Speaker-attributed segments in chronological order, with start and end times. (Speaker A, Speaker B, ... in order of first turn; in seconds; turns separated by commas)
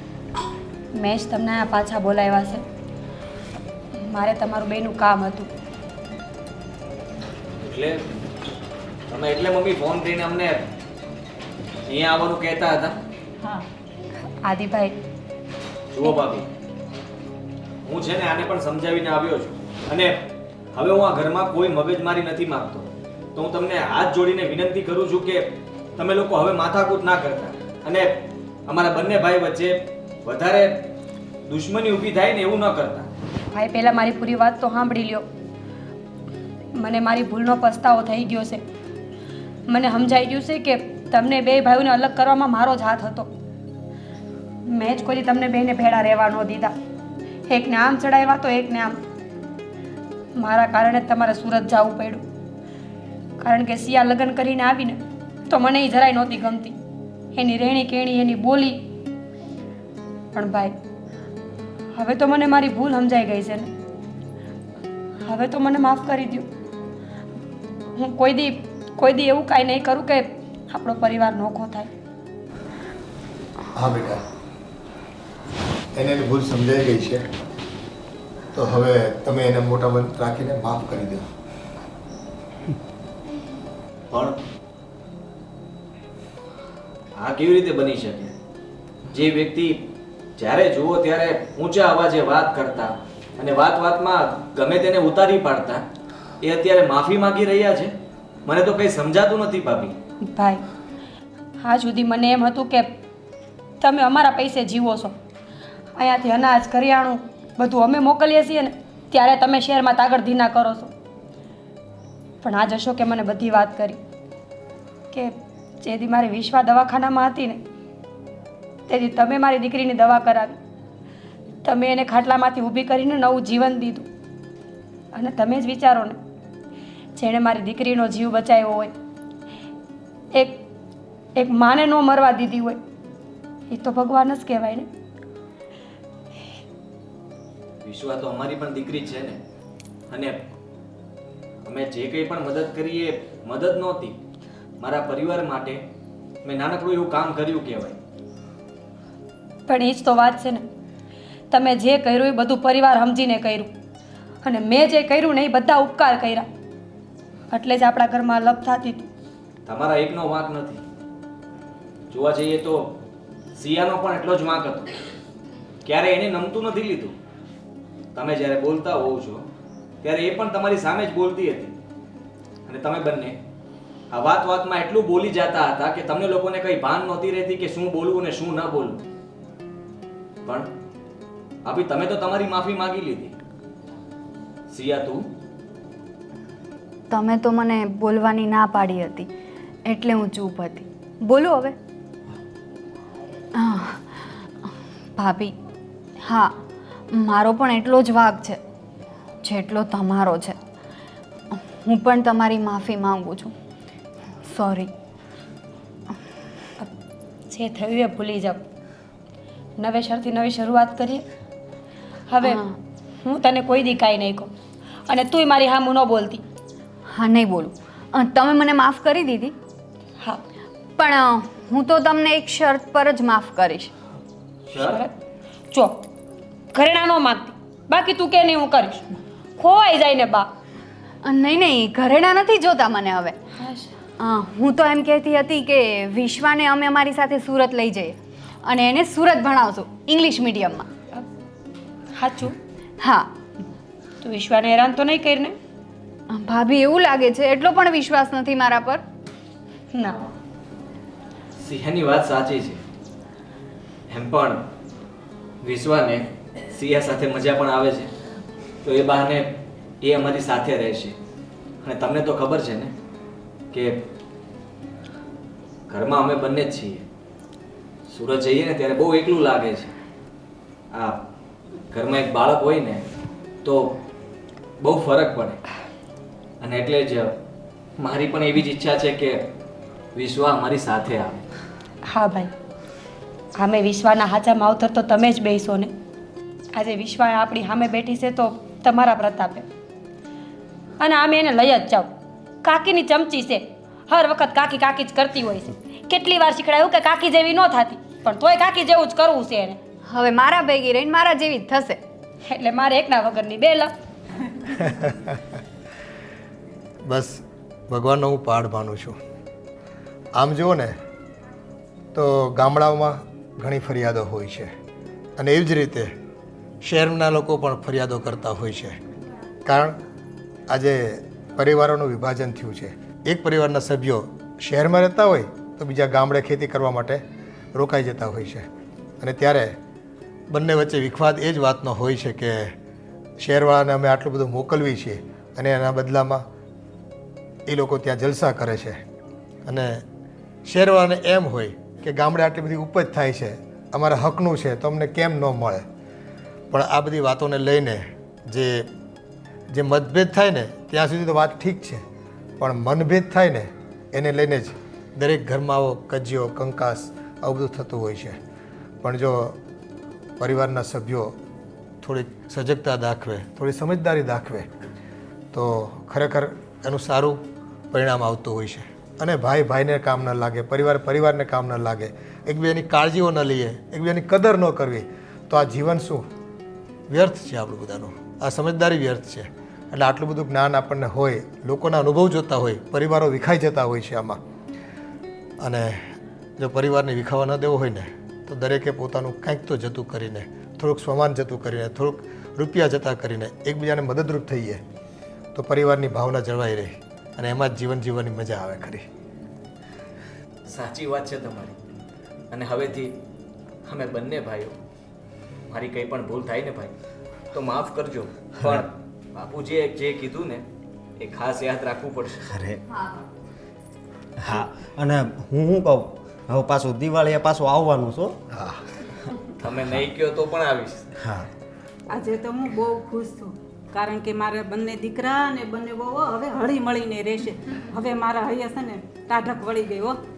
Speaker A: 0.9-2.6, Speaker A: 4.0-5.5, Speaker B: 7.6-8.0, Speaker B: 9.1-10.7, Speaker B: 11.9-13.0, Speaker A: 14.4-15.0, Speaker B: 15.9-16.5, Speaker B: 17.9-30.9, Speaker B: 31.5-33.1, Speaker A: 33.5-35.3, Speaker A: 36.8-38.6, Speaker A: 39.7-43.3, Speaker A: 44.7-46.8, Speaker A: 47.5-49.0, Speaker A: 50.4-52.2, Speaker A: 53.4-56.8, Speaker A: 57.3-58.9, Speaker A: 60.3-60.8, Speaker A: 62.0-63.7, Speaker A: 65.2-66.5, Speaker A: 68.0-71.9, Speaker C: 73.7-74.2, Speaker C: 76.0-77.3, Speaker C: 78.5-81.3, Speaker B: 84.1-84.4, Speaker B: 87.2-88.3, Speaker B: 89.1-95.8, Speaker B: 96.4-97.9, Speaker B: 98.5-100.0, Speaker A: 100.2-100.6, Speaker A: 101.6-103.0, Speaker A: 103.8-105.2, Speaker A: 106.0-110.9, Speaker A: 112.4-114.0, Speaker A: 115.1-117.6, Speaker A: 118.9-120.6, Speaker A: 121.7-124.1, Speaker A: 125.1-126.2, Speaker A: 127.2-128.9, Speaker A: 130.3-130.6, Speaker A: 131.4-132.8, Speaker A: 133.7-134.9, Speaker B: 137.8-139.4, Speaker B: 140.1-140.5, Speaker B: 141.6-144.2, Speaker B: 144.8-145.8, Speaker B: 146.4-148.0, Speaker A: 149.7-150.7, Speaker A: 151.5-153.7, Speaker A: 154.4-156.5, Speaker A: 157.5-159.1, Speaker B: 159.7-160.8, Speaker B: 162.1-163.0, Speaker B: 163.6-164.9, Speaker B: 165.8-167.1, Speaker B: 168.1-169.4, Speaker B: 170.0-171.7, Speaker B: 172.7-173.4, Speaker B: 174.1-179.0, Speaker B: 180.4-180.7, Speaker B: 181.7-183.3, Speaker B: 184.7-185.3, Speaker D: 187.1-189.3, Speaker D: 189.9-191.8, Speaker D: 193.6-194.0, Speaker D: 195.2-195.5, Speaker D: 196.2-196.5, Speaker D: 197.1-198.6, Speaker D: 199.4-200.6, Speaker D: 201.5-203.5, Speaker D: 204.5-204.9, Speaker A: 207.5-208.7, Speaker A: 209.8-211.3, Speaker A: 212.3-212.6, Speaker D: 212.4-212.8, Speaker A: 213.2-214.5, Speaker A: 215.1-216.4, Speaker D: 217.1-219.6, Speaker D: 221.0-223.9, Speaker B: 224.7-225.0, Speaker A: 224.8-225.1, Speaker A: 225.7-226.1, Speaker A: 226.7-230.5, Speaker D: 231.2-233.4, Speaker A: 233.6-234.0, Speaker D: 234.2-240.9, Speaker A: 242.2-242.6, Speaker D: 243.0-243.3, Speaker A: 244.2-245.6, Speaker D: 246.3-249.0, Speaker A: 249.9-250.2, Speaker B: 251.6-252.8, Speaker B: 254.1-254.6, Speaker B: 255.6-258.1, Speaker B: 258.8-259.5, Speaker B: 260.0-261.1, Speaker B: 261.8-262.9, Speaker B: 263.7-264.0, Speaker B: 265.9-267.1, Speaker B: 268.1-269.9, Speaker B: 270.9-271.3, Speaker B: 271.9-273.0, Speaker B: 273.6-274.0, Speaker B: 274.8-275.6, Speaker B: 276.6-277.4, Speaker B: 278.0-279.4, Speaker B: 280.1-281.4, Speaker A: 282.1-282.5, Speaker A: 283.6-285.9, Speaker A: 286.7-289.7, Speaker A: 291.0-292.1, Speaker A: 292.6-299.8, Speaker D: 300.1-302.0, Speaker A: 302.5-303.9, Speaker C: 304.8-305.5, Speaker C: 307.1-309.2, Speaker C: 310.4-310.9, Speaker C: 312.1-314.7, Speaker C: 315.4-316.1, Speaker C: 316.8-319.0, Speaker C: 319.6-320.0, Speaker C: 320.7-327.2, Speaker C: 327.7-328.7, Speaker C: 329.2-329.8, Speaker C: 330.5-332.7, Speaker C: 333.4-336.4, Speaker C: 337.7-339.0, Speaker C: 339.7-340.0, Speaker C: 340.7-345.8, Speaker C: 346.7-348.9, Speaker C: 349.7-352.0, Speaker C: 352.6-358.4, Speaker C: 359.0-359.6, Speaker C: 360.4-361.4, Speaker C: 362.0-364.7, Speaker C: 365.5-367.4, Speaker C: 367.9-376.2, Speaker C: 377.1-384.4, Speaker C: 385.6-394.8, Speaker C: 395.5-399.0, Speaker B: 400.7-401.8, Speaker B: 402.5-403.2, Speaker B: 403.9-404.8, Speaker B: 405.7-406.9, Speaker B: 407.5-410.6, Speaker B: 411.2-412.5, Speaker E: 412.5-412.8, Speaker D: 412.9-413.3, Speaker E: 414.4-418.5, Speaker B: 419.6-421.1, Speaker F: 422.1-430.2